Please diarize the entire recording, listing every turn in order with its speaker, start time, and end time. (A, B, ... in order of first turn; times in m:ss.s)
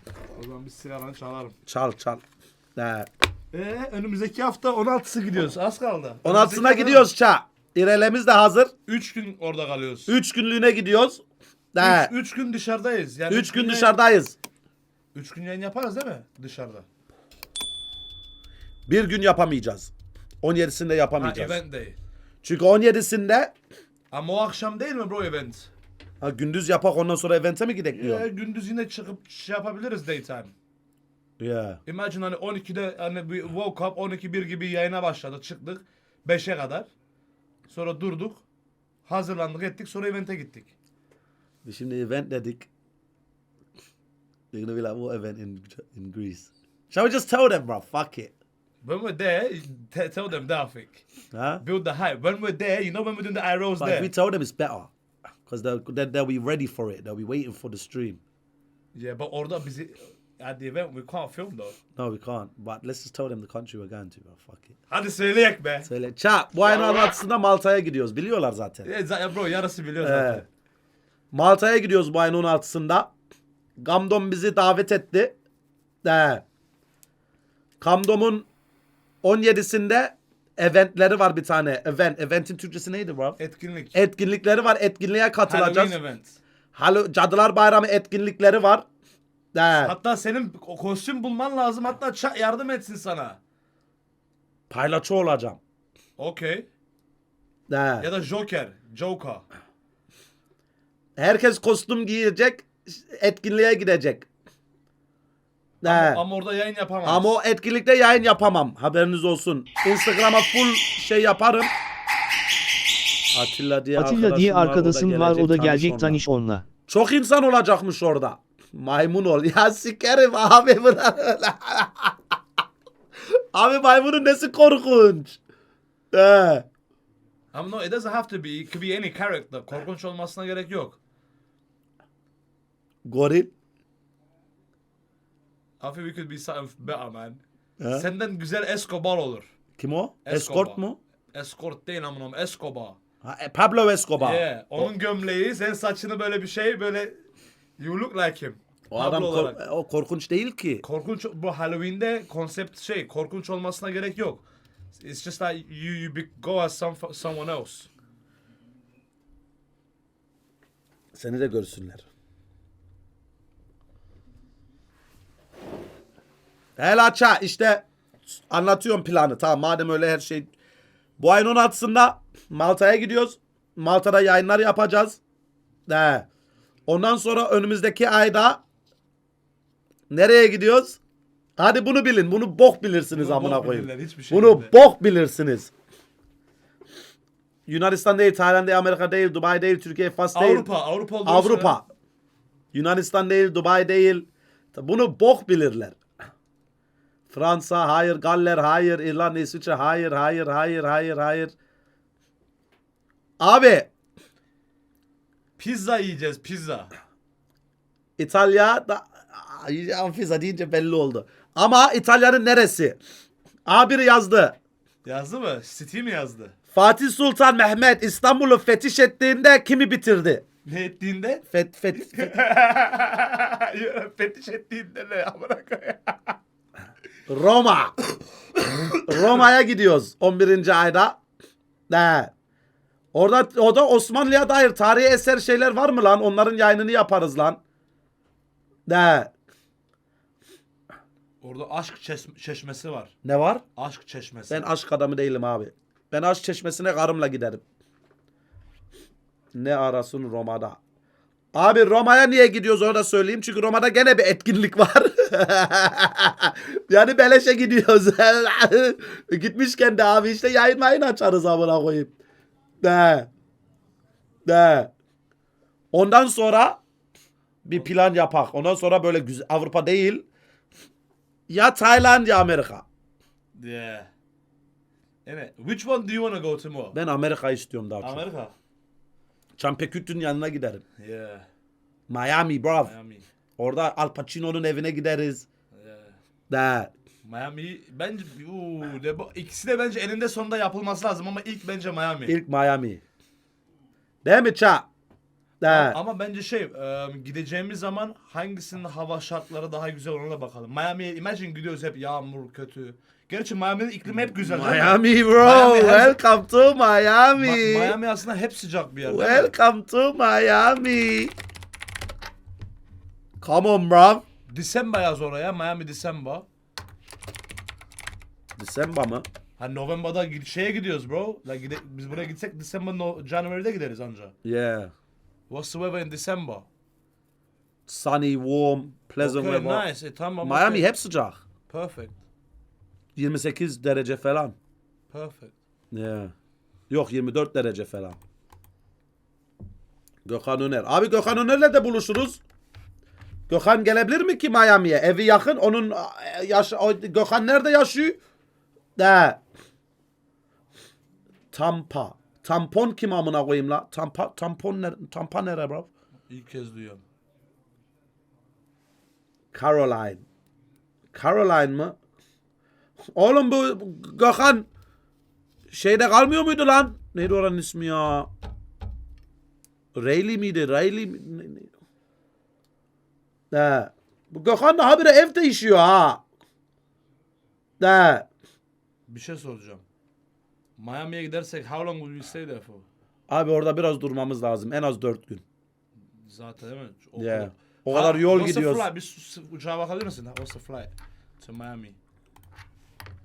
0:00.3-0:01.6 A
0:01.7-0:02.2 B
0:02.8-0:03.1 B
0:03.5-0:07.1 A
0:06.2-0:08.7 B
0:08.9-0:10.1 A
0:10.1-0:11.2 B
0:11.7-0:12.1 B
0:11.8-0:14.0 A
0:13.3-0:14.3 B
0:15.1-0:16.8 A
0:18.9-0:19.9 B
0:20.4-0:21.6 B
0:21.2-0:22.0 A
0:22.4-0:23.5 B
0:24.1-0:25.7 A
0:26.2-0:28.2 B
0:27.9-0:30.5 A
0:31.4-0:31.8 B
0:31.8-0:36.9 A
0:37.7-0:38.4 A
0:39.0-0:40.7 A
0:41.6-0:42.7 B
0:44.5-0:48.3 B
0:48.8-0:51.0 A
0:51.3-0:51.6 B
0:51.6-0:54.1 A
0:53.8-0:54.9 B
0:55.4-0:58.2 B
0:58.9-1:01.8 A
1:02.0-1:04.8 B
1:04.9-1:05.9 A
1:05.8-1:08.9 B
1:08.8-1:10.5 A
1:10.0-1:10.4 B
1:11.3-1:13.1 B
1:13.8-1:15.4 B
1:16.0-1:16.4 B
1:17.8-1:18.5 B
1:19.2-1:23.4 B
1:23.4-1:23.9 A
1:23.9-1:26.0 B
1:25.4-1:26.4 A
1:26.7-1:28.8 B
1:29.5-1:29.9 B
1:29.8-1:33.4 A
1:34.7-1:35.6 B
1:36.2-1:36.7 A
1:37.7-1:38.1 B
1:38.0-1:39.4 A
1:41.2-1:44.3 B
1:45.8-1:46.2 B
1:45.8-1:47.3 A
1:47.0-1:51.7 B
1:53.3-1:56.2 B
1:53.9-1:56.6 C
1:56.9-2:02.2 B
2:03.5-2:05.4 B
2:06.1-2:06.6 B
2:07.5-2:11.0 A
2:13.0-2:13.5 B
2:15.8-2:19.5 A
2:17.8-2:18.1 B
2:19.8-2:21.0 B
2:20.2-2:20.8 A
2:21.3-2:23.0 A
2:23.2-2:24.9 B
2:24.2-2:27.2 A
2:27.8-2:29.6 A
2:28.9-2:30.8 B
2:30.8-2:37.9 A
2:41.1-2:42.0 B
2:46.8-2:50.5 B
2:51.2-2:55.2 B
2:55.9-2:56.2 B
2:56.9-2:58.6 B
3:00.1-3:01.0 B
3:01.6-3:05.7 B
3:03.1-3:04.7 A
3:07.7-3:10.7 B
3:10.3-3:11.8 A
3:11.2-3:11.9 B
3:12.7-3:16.0 B
3:17.3-3:21.5 B
3:23.4-3:23.9 B
3:25.6-3:26.9 A
3:28.2-3:33.0 B
3:33.6-3:34.6 B
3:35.0-3:36.5 A
3:36.7-3:40.4 B
3:40.6-3:41.4 A
3:41.5-3:42.3 B
3:41.9-3:46.4 A
3:47.3-3:47.9 B
3:48.7-3:49.4 A
3:49.0-3:51.2 B
3:51.9-3:52.3 B
3:53.1-3:57.6 B
3:58.9-3:59.3 B
4:01.4-4:03.1 A
4:03.2-4:03.6 B
4:03.8-4:04.7 A
4:04.5-4:07.6 B
4:09.5-4:10.8 B
4:11.5-4:22.1 B
4:22.8-4:23.3 B
4:24.4-4:24.9 B
4:25.9-4:26.8 B
4:27.6-4:30.2 B
4:31.5-4:32.8 B
4:33.5-4:34.1 A
4:35.2-4:37.0 A
4:36.9-4:38.3 B
4:38.0-4:38.5 A
4:39.6-4:40.8 B
4:41.0-4:41.5 A
4:42.1-4:42.9 B
4:42.8-4:43.3 A
4:43.6-4:45.4 B
4:45.7-4:46.2 A
4:46.5-4:46.9 B
4:47.2-4:52.4 A
4:52.3-4:53.0 B
4:54.2-4:54.9 B
4:55.6-4:56.0 B
4:55.6-5:06.2 A
5:04.1-5:08.0 B
5:07.3-5:09.5 A
5:09.0-5:11.3 B
5:13.4-5:14.2 B
5:14.5-5:16.4 A
5:18.6-5:19.3 B
5:19.6-5:24.3 A
5:24.4-5:24.9 B
5:25.5-5:26.6 A
5:27.9-5:29.9 B
5:29.2-5:30.9 A
5:30.4-5:31.4 B
5:31.7-5:32.2 A
5:33.2-5:34.5 B
5:35.1-5:35.5 A
5:35.9-5:36.3 B
5:36.9-5:38.2 B
5:40.2-5:42.4 B
5:43.5-5:48.2 B
5:49.0-5:49.4 B
5:51.5-5:55.9 B
5:56.3-5:57.0 A
5:59.5-6:00.2 B
6:01.1-6:02.0 B
6:03.1-6:04.7 B
6:05.7-6:08.3 B
6:09.9-6:11.7 B
6:13.5-6:16.2 B
6:17.8-6:18.3 B
6:19.1-6:19.8 A
6:20.8-6:22.8 A
6:23.3-6:25.4 B
6:26.1-6:32.0 A
6:27.2-6:28.8 B